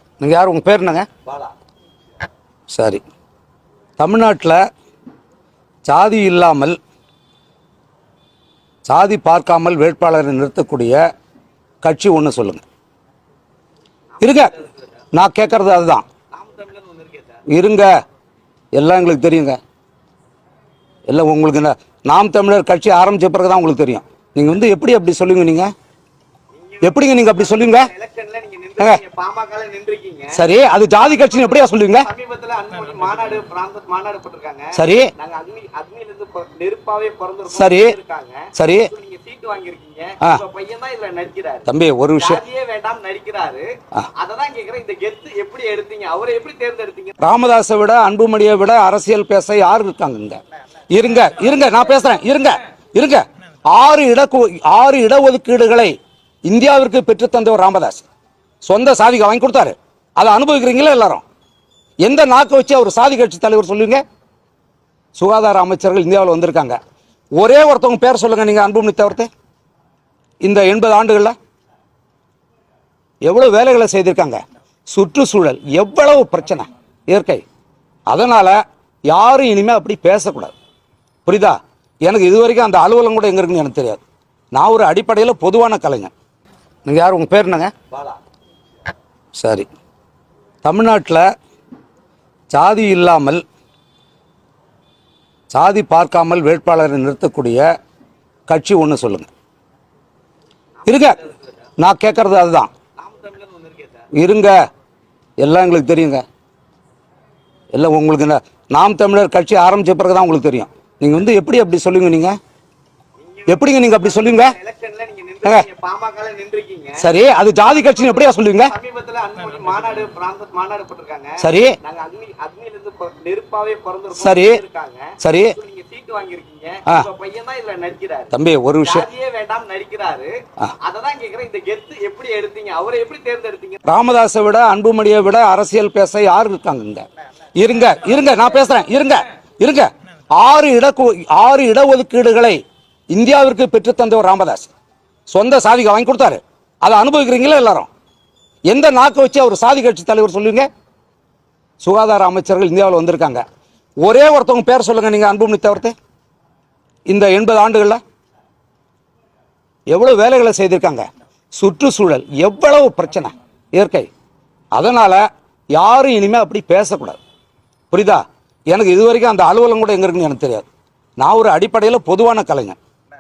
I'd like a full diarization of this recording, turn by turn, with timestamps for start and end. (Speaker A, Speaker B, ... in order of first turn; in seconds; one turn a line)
Speaker A: 0.2-1.1
Speaker B: 1.2-1.5
Speaker A: 2.7-3.0
Speaker A: 4.0-4.6
Speaker A: 5.9-6.8
Speaker A: 8.9-11.0
Speaker A: 11.8-12.6
Speaker B: 14.2-15.1
Speaker A: 14.2-14.5
Speaker A: 15.1-16.0
Speaker B: 16.3-17.4
Speaker A: 17.5-17.9
Speaker A: 18.7-19.6
Speaker A: 21.1-25.7
Speaker B: 26.5-30.4
Speaker A: 26.8-27.9
Speaker A: 30.3-32.1
Speaker B: 31.0-47.2
Speaker A: 34.7-35.1
Speaker A: 37.5-38.0
Speaker A: 38.5-38.9
Speaker A: 41.7-42.4
Speaker A: 47.2-50.4
Speaker A: 50.9-56.0
Speaker A: 56.5-58.0
Speaker A: 58.6-61.2
Speaker A: 62.0-64.0
Speaker A: 65.2-66.8
Speaker A: 67.4-69.3
Speaker A: 70.4-71.3
Speaker A: 73.2-77.4
Speaker A: 78.1-80.5
Speaker A: 81.3-84.0
Speaker A: 84.5-86.1
Speaker A: 86.9-87.7
Speaker B: 87.9-88.2
Speaker A: 89.3-89.7
Speaker A: 90.6-91.3
Speaker A: 92.5-93.4
Speaker A: 95.5-97.6
Speaker A: 98.5-99.3
Speaker B: 100.8-101.7
Speaker A: 100.9-101.2
Speaker A: 101.8-102.7
Speaker B: 103.0-104.1
Speaker A: 104.1-104.6
Speaker A: 105.4-106.2
Speaker A: 107.7-112.4
Speaker B: 113.2-117.1
Speaker A: 113.5-114.5
Speaker A: 117.0-118.7
Speaker B: 117.7-133.8
Speaker A: 121.4-121.8
Speaker A: 124.2-124.6
Speaker A: 125.2-125.6
Speaker A: 128.3-129.1
Speaker A: 133.8-142.6
Speaker A: 143.1-144.7
Speaker A: 145.3-147.9
Speaker A: 148.7-150.7
Speaker A: 151.8-153.4
Speaker A: 154.0-155.9
Speaker A: 157.1-158.0
Speaker A: 159.9-164.1
Speaker A: 164.8-165.2
Speaker A: 165.8-167.2
Speaker A: 167.9-170.7
Speaker A: 171.2-172.8